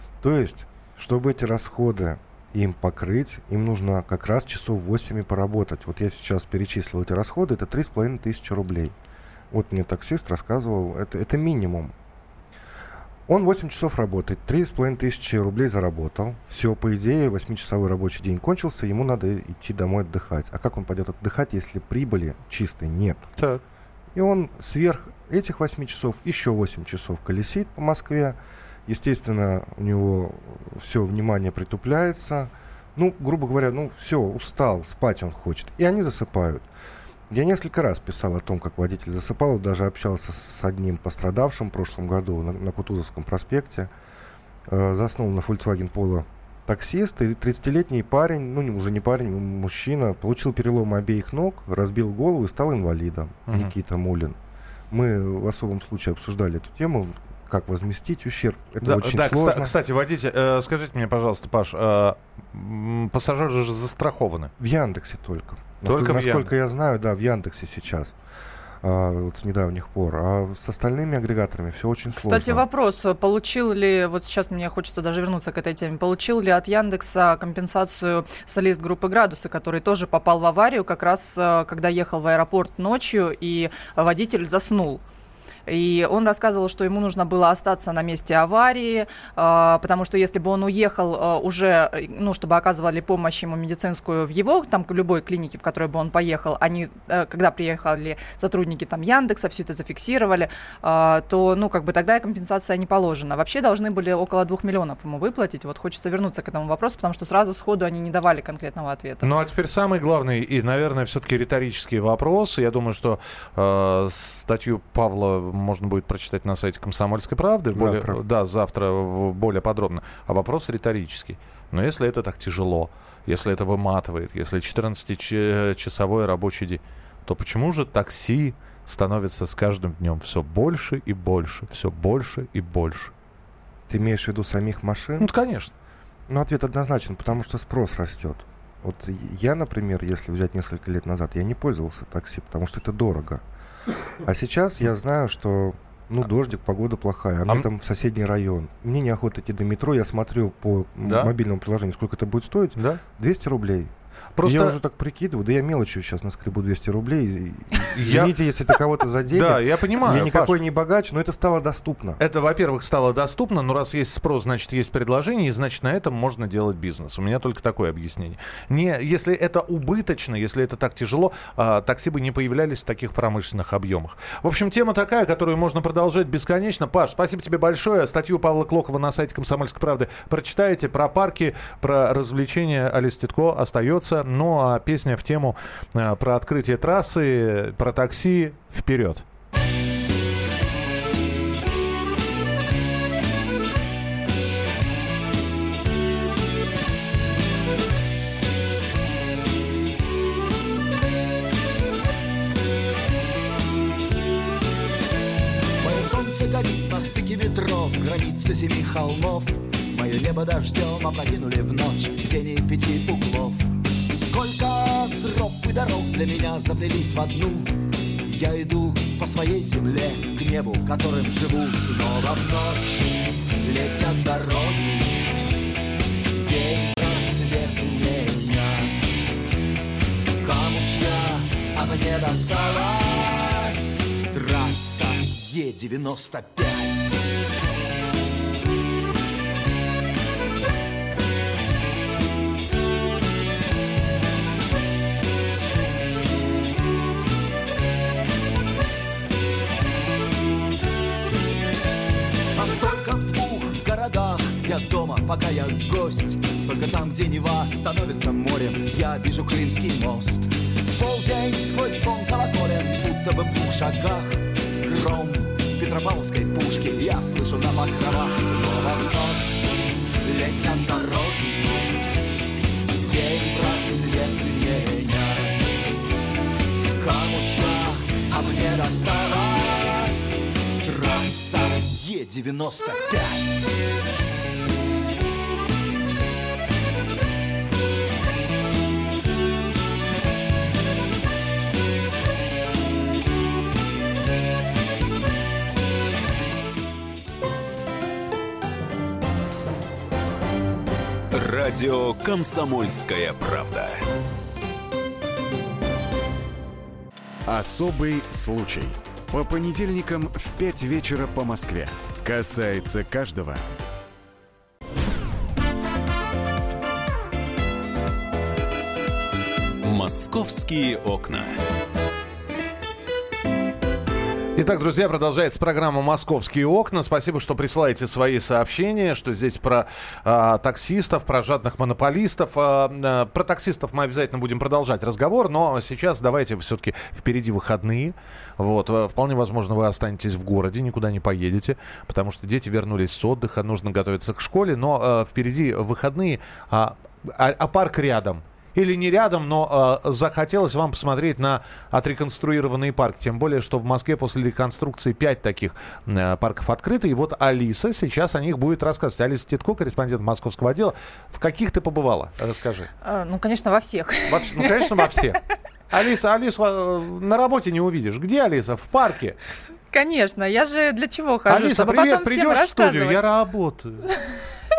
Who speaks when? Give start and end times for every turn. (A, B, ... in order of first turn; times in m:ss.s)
0:00.2-0:08.9 A
0:09.5-0:11.9 A
0:13.3-0:23.3 A
0:23.4-0:23.6 B
0:24.1-0:36.6 A
0:37.3-0:43.9 A
0:44.7-0:54.4 A
0:54.9-0:59.7 A
0:58.8-1:04.5 B
1:04.6-1:08.2 A
1:05.8-1:06.5 B
1:08.8-1:12.6 A
1:12.2-1:25.0 C
1:25.7-1:49.3 C
1:49.2-2:13.1 B
1:57.7-1:58.2 A
2:13.9-2:15.3 A
2:15.2-2:15.7 B
2:16.3-2:23.4 A
2:24.2-2:42.2 A
2:31.0-2:31.3 B
2:34.4-2:34.8 B
2:37.9-2:38.3 B
2:39.3-2:40.5 B
2:42.2-3:09.2 B
3:25.8-3:45.2 D
3:46.4-3:49.3 D
3:50.4-3:57.2 D
4:12.5-4:32.0 D
4:33.0-4:35.9 D
4:37.0-4:43.7 D
5:01.3-5:04.0 E
5:07.4-5:13.6 F
5:19.8-5:21.6 E
5:24.6-6:02.9 B
6:03.0-6:05.0 C
6:04.3-6:09.4 B
6:09.9-6:13.2 C
6:11.5-6:14.1 B